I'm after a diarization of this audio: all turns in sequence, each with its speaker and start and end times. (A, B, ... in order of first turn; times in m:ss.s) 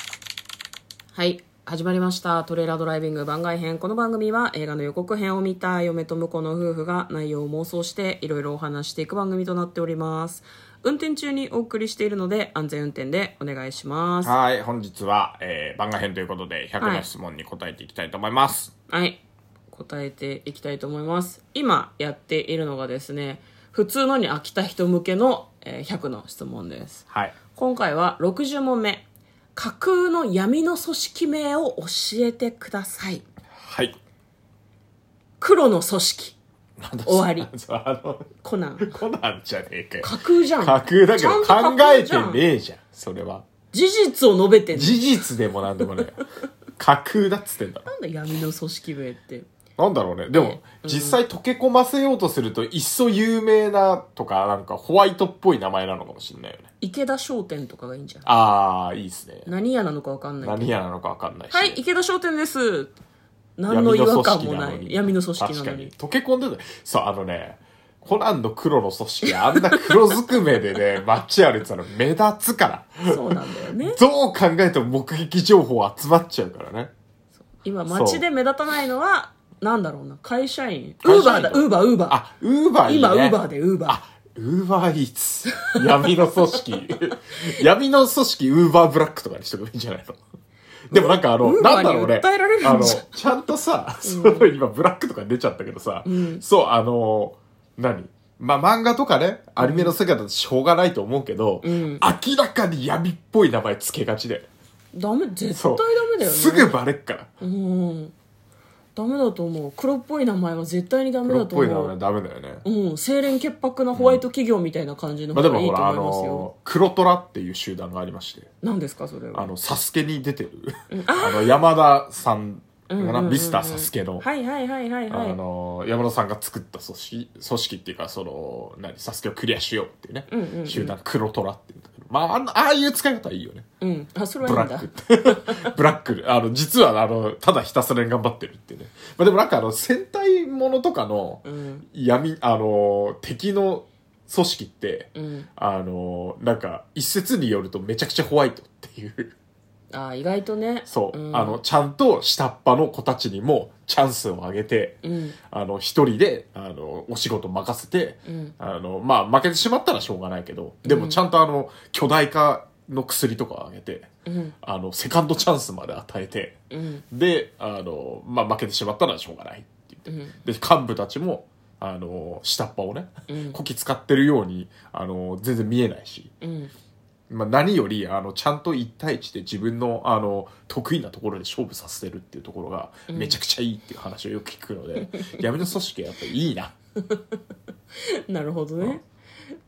0:01.1-0:14.3 A
0:14.2-0:18.7 B
0:16.8-0:17.1 A
0:18.9-0:33.2 A
0:27.1-0:27.4 B
0:33.6-0:34.0 B
0:35.4-0:36.4 A
0:36.8-0:43.4 B
0:37.1-0:37.5 A
0:38.4-0:39.0 A
0:40.0-0:42.4 A
0:43.7-0:45.1 A
0:44.7-0:46.2 B
0:46.8-0:47.9 B
0:47.9-0:49.5 A
0:49.8-0:56.7 B
0:50.3-0:51.2 A
0:56.8-0:58.3 A
0:58.3-0:59.5 B
0:59.5-1:00.7 A
1:00.4-1:01.8 B
1:01.5-1:03.0 A
1:03.6-1:05.9 A
1:03.7-1:16.9 B
1:13.1-1:14.0 A
1:17.6-1:22.2 A
1:17.9-1:18.2 B
1:21.0-1:30.2 B
1:22.8-1:24.0 A
1:30.9-1:44.5 B
1:30.9-1:33.1 A
1:34.0-1:34.5 A
1:36.0-1:36.4 A
1:39.6-1:40.0 A
1:41.6-1:42.0 A
1:44.9-1:46.8 A
1:45.6-1:47.3 B
1:47.4-1:48.1 A
1:49.0-1:52.0 A
1:51.2-1:52.6 B
1:52.6-1:56.5 A
1:53.9-1:54.2 B
1:55.3-1:58.5 B
1:58.6-1:59.5 A
1:59.3-2:04.3 B
2:00.9-2:01.6 A
2:02.9-2:05.4 A
2:05.1-2:13.7 B
2:10.3-2:10.9 A
2:13.8-2:15.6 A
2:14.4-2:29.4 B
2:21.4-2:21.8 A
2:25.2-2:25.5 A
2:29.9-2:31.6 A
2:30.9-2:35.0 B
2:35.0-2:35.4 A
2:35.5-2:44.1 B
2:38.3-2:38.6 A
2:40.8-2:41.2 A
2:44.3-2:44.5 A
2:44.6-2:46.6 B
2:46.7-2:47.0 A
2:47.1-2:56.3 B
2:50.1-2:50.4 A
2:53.3-2:53.6 A
2:56.4-2:56.7 A
2:57.3-3:06.7 B
3:03.1-3:03.4 A
3:05.0-3:05.4 A
3:07.0-3:07.4 A
3:08.0-3:09.0 A